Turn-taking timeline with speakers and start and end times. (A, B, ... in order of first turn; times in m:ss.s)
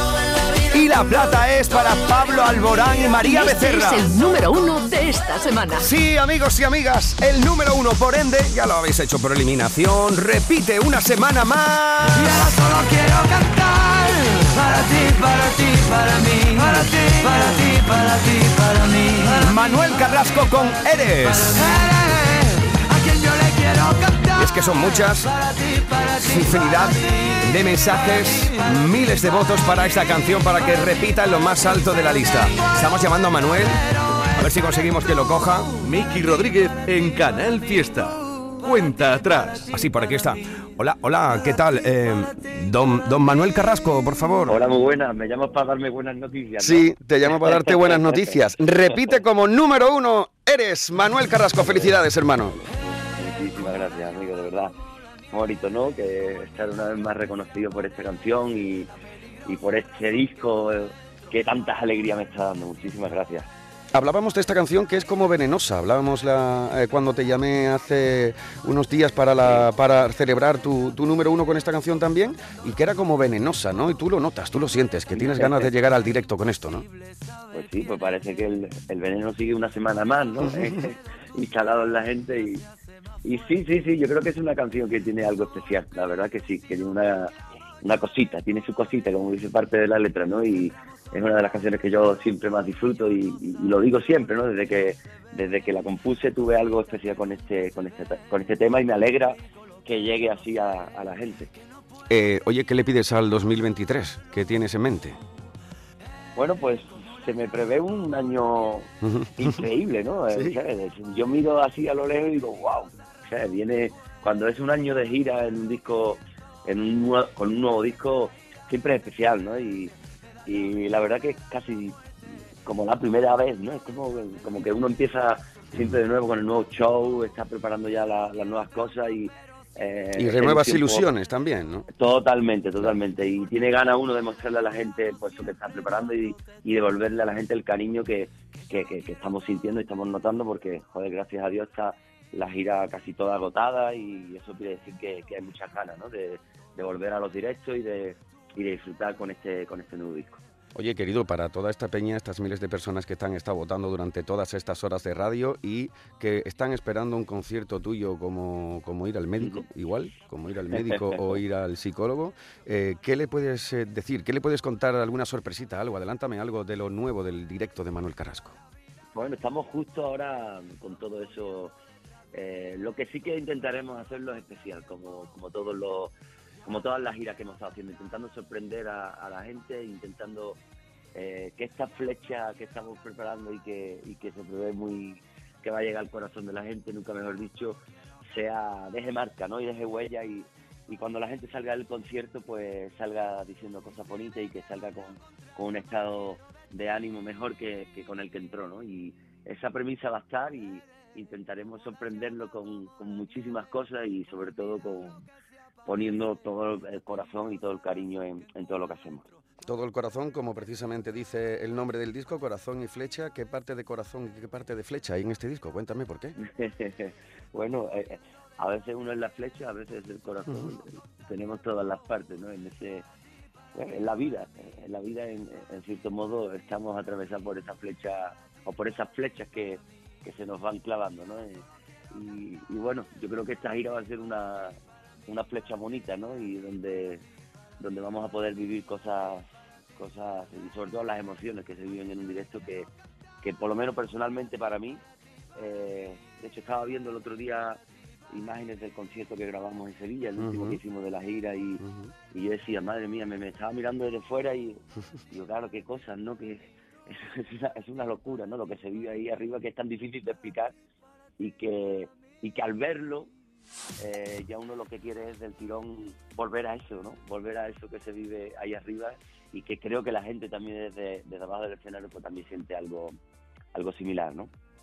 0:00.7-0:04.0 A
0:03.2-0:05.9 B
0:05.8-0:12.5 A
0:12.1-0:19.5 C
0:19.4-0:21.7 A
0:21.3-0:27.5 C
0:24.4-0:25.3 A
0:26.2-0:33.8 A
0:34.4-0:35.7 A
0:35.8-0:38.1 D
0:38.6-0:39.6 D
0:39.7-0:44.6 A
0:44.5-0:49.2 E
0:46.6-0:52.5 A
0:51.5-0:54.7 E
0:55.3-0:58.9 E
0:59.4-1:03.5 E
1:03.9-1:16.8 A
1:15.1-1:15.7 E
1:17.5-1:22.6 E
1:23.2-1:41.5 E
1:42.1-1:45.2 A
1:46.4-1:59.9 E
1:49.0-1:49.6 A
2:00.4-2:02.0 E
2:02.6-2:11.1 E
2:10.1-2:11.8 A
2:11.9-2:30.4 E
2:30.7-2:48.5 A
2:39.4-2:39.6 E
2:40.7-2:41.4 E
2:49.1-2:51.7 E
2:52.3-2:56.1 E
2:56.6-3:00.6 E
3:01.1-3:07.8 E
3:08.3-3:25.2 E
3:25.8-3:29.2 E
3:29.7-3:36.3 A
3:36.4-3:43.0 E
3:43.7-3:54.8 E
3:55.3-3:57.2 E
3:57.8-4:02.9 E
4:03.4-4:05.0 E
4:05.6-4:07.8 E
4:08.3-4:20.7 E
4:10.4-4:10.8 A
4:11.8-4:12.1 A
4:21.4-4:23.3 E
4:24.0-4:33.2 E
4:33.7-4:34.5 E